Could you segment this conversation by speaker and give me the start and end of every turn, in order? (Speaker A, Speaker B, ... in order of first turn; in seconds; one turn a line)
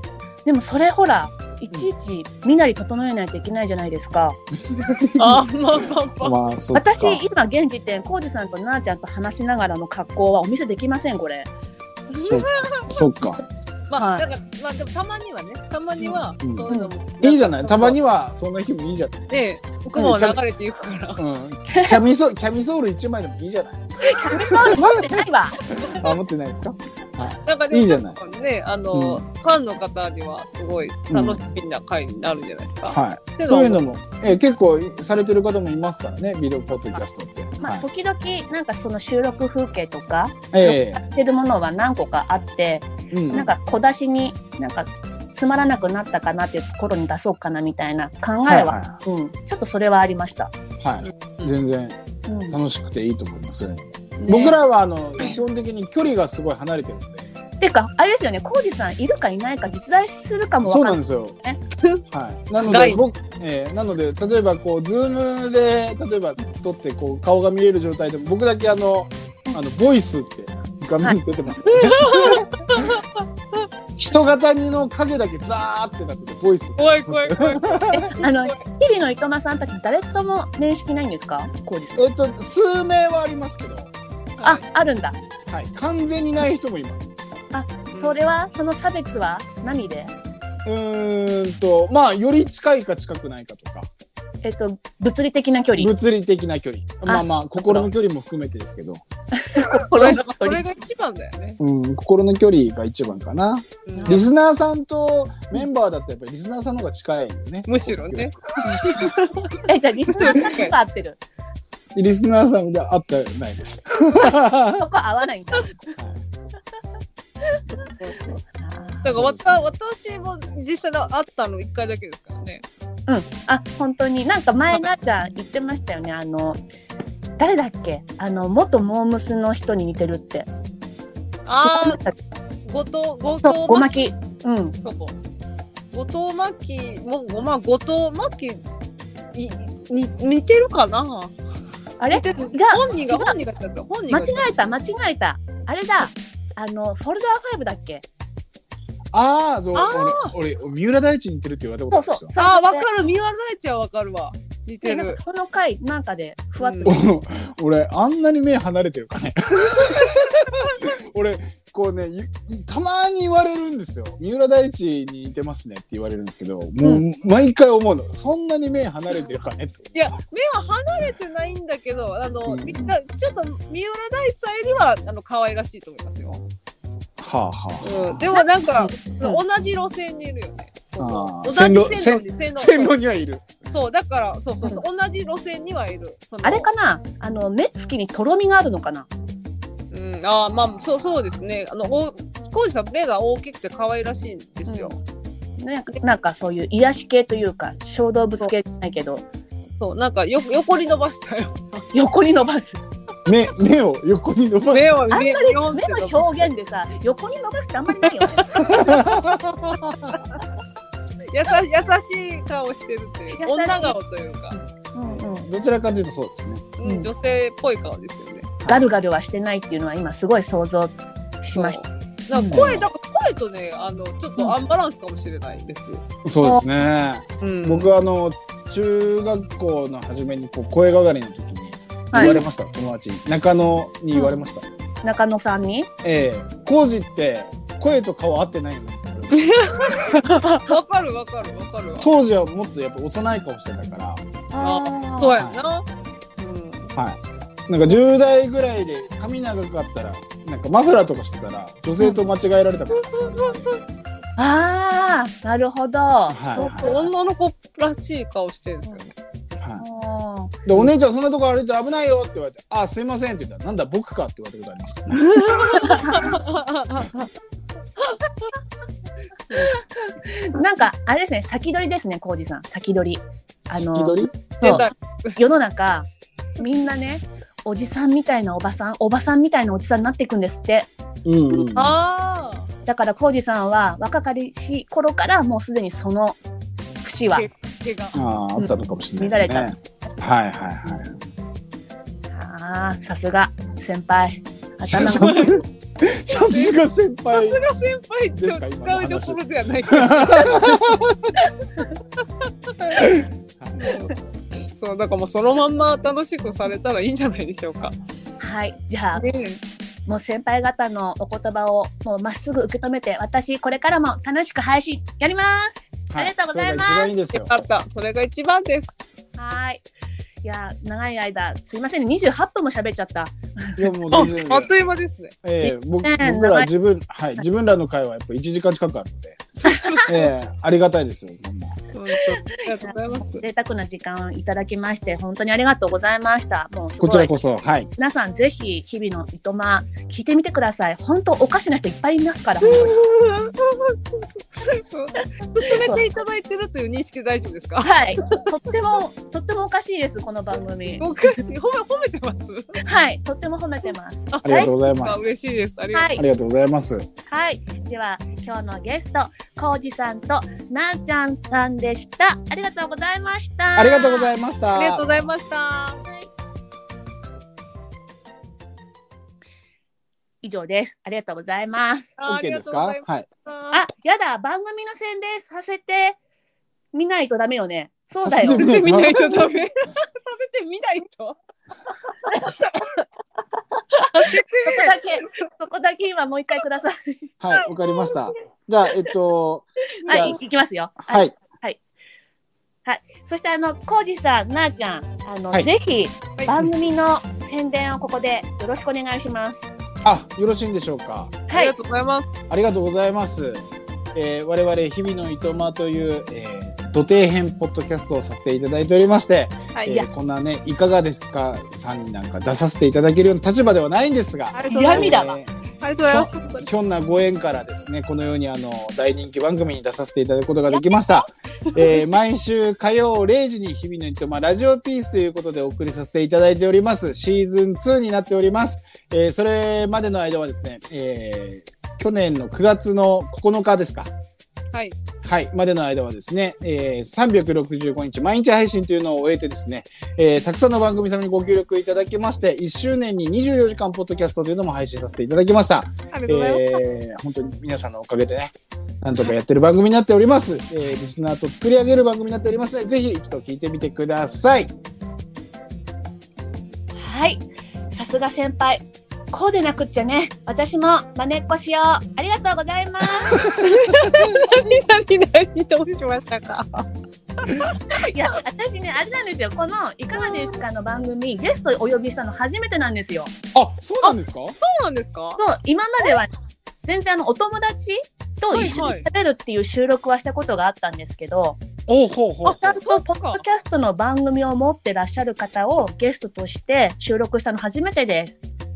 Speaker A: 0.5-4.4
Speaker B: 4.7-5.4
Speaker C: 5.2-6.4
Speaker B: 6.2-7.2
Speaker A: 6.8-11.5
Speaker C: 12.2-12.9
Speaker B: 12.2-13.4
Speaker C: 13.9-18.0
Speaker A: 14.0-14.3
Speaker A: 16.0-16.9
Speaker B: 16.4-16.7
Speaker B: 17.2-19.3
Speaker C: 19.3-21.2
Speaker B: 20.0-20.4
Speaker B: 21.2-28.2
Speaker A: 21.7-22.0
Speaker A: 24.0-25.6
Speaker C: 27.4-33.8
Speaker B: 28.9-29.2
Speaker B: 31.1-31.4
Speaker B: 32.9-37.9
Speaker A: 37.6-50.5
Speaker B: 40.5-41.0
Speaker B: 43.1-43.5
Speaker B: 48.5-49.0
Speaker B: 50.8-52.0
Speaker A: 52.3-52.6
Speaker B: 52.5-57.3
Speaker C: 54.2-54.6
Speaker A: 57.6-61.6
Speaker B: 60.6-61.4
Speaker B: 62.1-73.0
Speaker C: 62.6-63.0
Speaker C: 71.6-73.7
Speaker B: 74.0-78.1
Speaker C: 76.8-78.6
Speaker A: 77.9-82.1
Speaker B: 82.0-83.9
Speaker C: 84.4-84.6
Speaker A: 84.4-85.2
Speaker B: 85.5-87.1
Speaker A: 87.5-90.1
Speaker C: 87.9-88.2
Speaker B: 90.7-93.9
Speaker A: 94.4-95.9
Speaker B: 95.8-99.0
Speaker A: 97.1-97.9
Speaker A: 99.3-100.6
Speaker C: 99.9-101.6
Speaker B: 101.6-109.2
Speaker C: 103.9-104.2
Speaker A: 104.0-104.3
Speaker C: 107.7-110.7
Speaker A: 108.6-108.9
Speaker A: 109.6-111.2
Speaker B: 112.0-114.8
Speaker A: 114.2-115.9
Speaker A: 117.4-119.1
Speaker C: 119.0-122.6
Speaker B: 119.1-119.6
Speaker A: 123.1-126.6
Speaker A: 127.4-130.5
Speaker C: 131.5-132.0
Speaker A: 131.6-132.2
Speaker C: 132.7-134.1
Speaker A: 133.4-134.8
Speaker C: 134.8-135.2
Speaker C: 135.9-138.6
Speaker C: 139.3-141.4
Speaker A: 142.0-143.4
Speaker C: 142.1-144.5
Speaker A: 144.1-148.1
Speaker B: 149.1-152.3
Speaker C: 149.8-150.3
Speaker A: 151.9-152.9
Speaker C: 152.4-155.2
Speaker A: 154.8-157.0
Speaker C: 156.6-156.9
Speaker B: 156.8-170.1
Speaker C: 169.9-176.4
Speaker B: 172.5-172.9
Speaker B: 177.2-178.2
Speaker C: 177.8-182.9
Speaker A: 178.3-179.4
Speaker B: 181.0-183.4
Speaker C: 183.7-186.7
Speaker A: 186.4-189.1
Speaker C: 189.9-195.0
Speaker B: 190.6-191.1
Speaker A: 194.7-194.9
Speaker A: 195.6-199.2
Speaker C: 199.8-201.9
Speaker A: 201.9-202.8
Speaker B: 203.3-204.9
Speaker C: 204.7-206.5
Speaker A: 205.1-209.1
Speaker C: 208.0-208.7
Speaker B: 208.6-210.2
Speaker C: 211.3-214.6
Speaker A: 213.4-214.0
Speaker A: 214.5-215.5
Speaker B: 215.0-216.7
Speaker C: 216.8-218.6
Speaker A: 218.7-222.6
Speaker C: 221.5-226.0
Speaker B: 222.5-222.9
Speaker B: 226.2-234.7
Speaker C: 227.4-227.9
Speaker A: 232.1-232.4
Speaker C: 232.1-232.4
Speaker A: 235.0-235.9
Speaker B: 236.0-240.0
Speaker C: 239.5-242.1
Speaker A: 240.0-240.7
Speaker B: 242.0-244.2
Speaker A: 244.5-245.4
Speaker C: 244.6-245.8
Speaker C: 246.4-246.9
Speaker B: 247.0-253.8
Speaker C: 252.9-253.8
Speaker A: 254.4-257.1
Speaker B: 256.3-256.9
Speaker C: 256.6-259.1
Speaker A: 259.8-260.6
Speaker B: 260.7-266.4
Speaker C: 265.3-267.2
Speaker A: 265.5-266.3
Speaker A: 269.5-276.1
Speaker B: 273.7-274.4
Speaker C: 274.6-275.4
Speaker A: 276.6-280.9
Speaker B: 281.2-282.0
Speaker C: 281.6-282.7
Speaker A: 282.9-286.4
Speaker A: 287.0-287.5
Speaker C: 287.3-288.2
Speaker B: 288.1-291.2
Speaker A: 288.6-289.7
Speaker A: 292.3-295.6
Speaker B: 294.8-297.6
Speaker C: 295.2-295.5
Speaker C: 296.3-296.8
Speaker C: 297.3-300.7
Speaker B: 298.4-301.4
Speaker B: 302.9-304.0
Speaker C: 303.8-307.9
Speaker A: 308.4-309.3
Speaker C: 309.1-309.6
Speaker A: 310.1-317.1
Speaker B: 316.1-317.6
Speaker C: 317.3-319.0
Speaker A: 319.4-319.8
Speaker A: 320.4-323.8
Speaker B: 323.8-324.7
Speaker C: 324.1-325.4
Speaker B: 325.4-329.5
Speaker A: 325.6-326.7
Speaker C: 329.6-330.2
Speaker A: 329.7-330.0
Speaker B: 330.1-331.8
Speaker C: 331.9-333.4
Speaker A: 332.1-337.3
Speaker B: 337.0-337.9
Speaker A: 338.0-343.0
Speaker C: 342.6-348.5
Speaker A: 345.6-346.0
Speaker A: 347.8-351.1
Speaker C: 351.0-352.8
Speaker A: 352.8-354.7
Speaker C: 354.3-356.2
Speaker B: 354.4-355.2
Speaker A: 355.9-356.2
Speaker B: 356.1-357.1
Speaker A: 357.3-364.3
Speaker B: 363.8-365.1
Speaker C: 364.7-366.0
Speaker A: 370.4-372.1
Speaker C: 372.2-373.8
Speaker B: 372.3-373.3
Speaker A: 373.7-376.2
Speaker A: 376.9-378.8
Speaker B: 378.2-379.5
Speaker C: 378.4-381.4
Speaker A: 382.3-382.9
Speaker A: 383.9-387.3
Speaker C: 384.1-385.1
Speaker B: 387.4-390.4
Speaker A: 390.1-391.8
Speaker B: 391.1-391.3
Speaker A: 392.9-399.7
Speaker B: 400.0-401.4
Speaker A: 401.5-401.7
Speaker C: 401.5-402.3
Speaker B: 402.5-415.5
Speaker C: 414.5-416.7
Speaker A: 414.7-415.3
Speaker B: 416.1-434.1
Speaker B: 435.2-454.7
Speaker C: 446.1-446.8
Speaker A: 457.0-463.4
Speaker B: 463.4-463.7
Speaker C: 463.4-467.8
Speaker A: 467.9-473.3
Speaker C: 470.2-470.6
Speaker B: 473.5-474.6
Speaker C: 474.0-475.4
Speaker A: 475.4-476.3
Speaker A: 476.9-481.6
Speaker C: 478.5-479.1
Speaker B: 478.6-478.8
Speaker B: 481.9-482.8
Speaker C: 482.5-483.4
Speaker A: 482.5-488.4